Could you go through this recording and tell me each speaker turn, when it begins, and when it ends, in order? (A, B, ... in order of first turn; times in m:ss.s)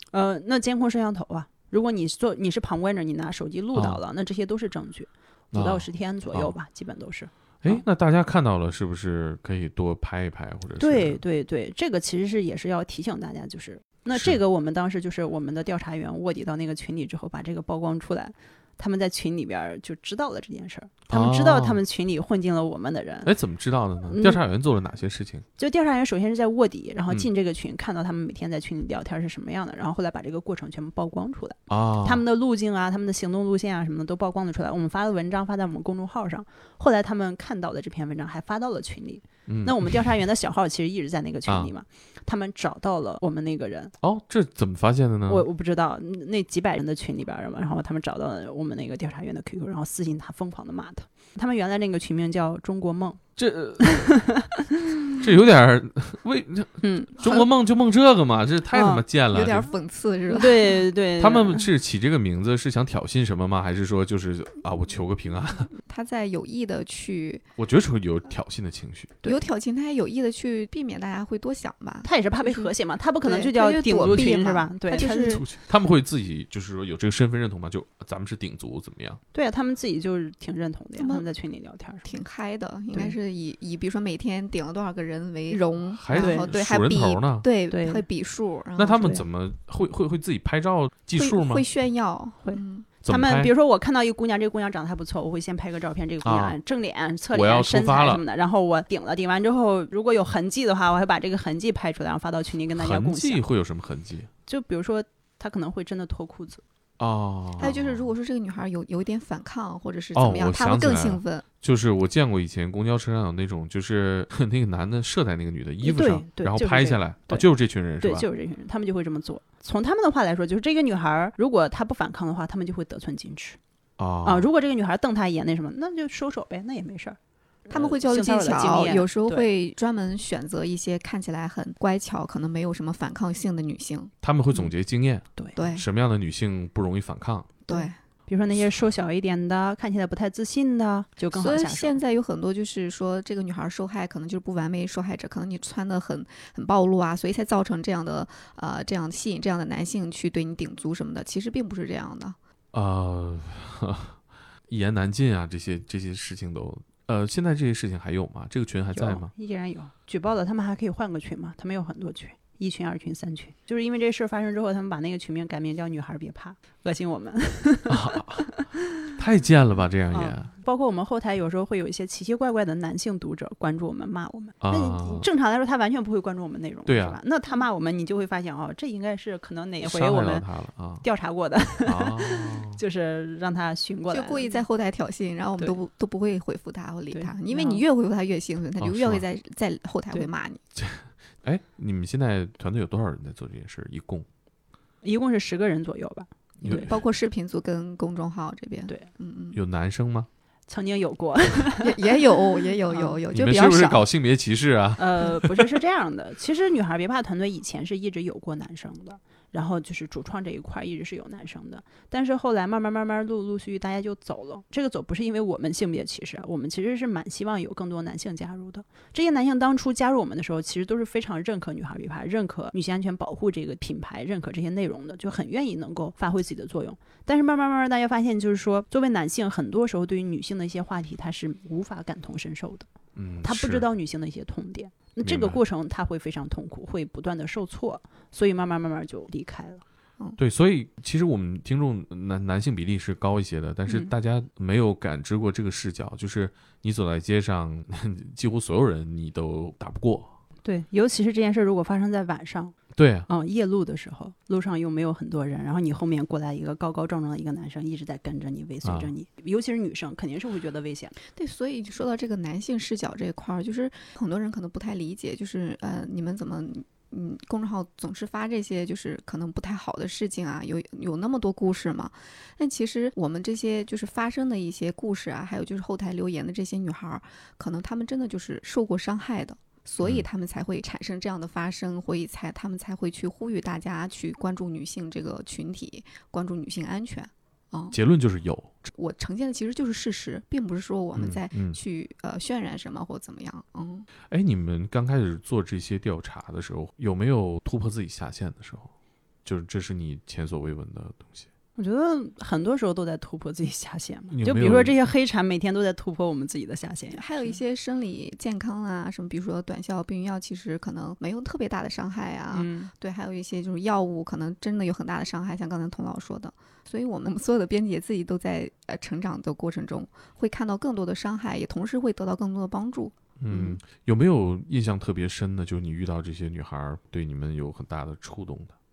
0:00.1-0:07.8 A
0:03.7-0:04.0 B
0:05.5-0:06.5 B
0:07.6-0:11.2 B
0:10.8-0:23.3 A
0:14.1-0:14.4 B
0:21.1-0:21.8 B
0:23.2-0:25.4 B
0:24.1-0:24.4 A
0:25.6-0:43.9 A
0:31.7-0:32.2 B
0:39.5-0:40.0 B
0:41.4-0:41.7 B
0:44.0-0:45.4 B
0:45.3-0:53.2 A
0:53.4-0:54.1 B
0:53.8-0:55.1 A
0:55.2-0:59.7 B
0:56.8-0:57.5 A
0:58.7-0:59.0 A
0:59.3-1:00.8 C
1:00.3-1:01.7 A
1:01.2-1:05.7 B
1:05.8-1:07.4 C
1:07.6-1:09.2 B
1:09.2-1:15.4 C
1:12.0-1:15.5 A
1:14.0-1:14.3 B
1:14.9-1:19.2 B
1:19.3-1:22.1 A
1:21.0-1:21.3 C
1:22.0-1:29.2 C
1:25.9-1:27.5 B
1:26.1-1:26.5 A
1:27.7-1:28.0 A
1:28.8-1:31.6 B
1:29.0-1:29.2 A
1:31.2-1:32.9 C
1:32.4-1:43.4 A
1:33.0-1:33.5 B
1:36.2-1:36.6 B
1:37.3-1:38.2 B
1:42.7-1:44.3 B
1:44.5-1:46.6 A
1:47.0-1:48.1 B
1:47.6-1:51.4 C
1:50.1-1:58.3 B
1:55.8-1:57.5 A
1:58.0-2:03.6 A
2:04.0-2:04.5 B
2:04.2-2:09.5 A
2:07.7-2:14.1 C
2:14.2-2:17.6 B
2:15.5-2:15.8 C
2:17.7-2:18.0 C
2:17.7-2:22.0 A
2:21.3-2:32.4 C
2:32.7-2:39.3 B
2:38.9-2:48.7 A
2:47.9-2:48.5 B
2:49.1-2:50.5 B
2:50.1-3:00.4 A
2:54.6-2:55.3 B
2:56.8-2:57.2 B
2:59.8-3:01.0 B
3:01.0-3:04.6 A
3:01.8-3:02.8 B
3:04.1-3:10.6 C
3:07.1-3:07.8 A
3:08.8-3:09.2 B
3:10.8-3:14.3 B
3:15.0-3:16.9 A
3:16.6-3:19.6 C
3:16.6-3:17.0 B
3:19.5-3:20.3 B
3:20.7-3:22.2 A
3:21.8-3:24.0 C
3:22.9-3:23.2 A
3:23.3-3:25.6 B
3:25.0-3:52.9 A
3:53.1-3:53.9 B
3:53.4-3:59.8 A
3:55.2-3:55.6 B
4:00.4-4:10.3 B
4:10.6-4:12.8 A
4:12.9-4:13.3 B
4:13.3-4:21.1 A
4:18.8-4:19.1 B
4:21.3-4:48.0 C
4:47.9-4:48.7 B
4:48.9-4:54.1 C
4:51.2-4:51.8 B
4:54.3-4:58.9 B
4:59.4-5:01.5 B
5:01.8-5:07.6 A
5:04.3-5:04.9 B
5:07.1-5:23.1 C
5:12.5-5:12.9 A
5:23.4-5:28.7 B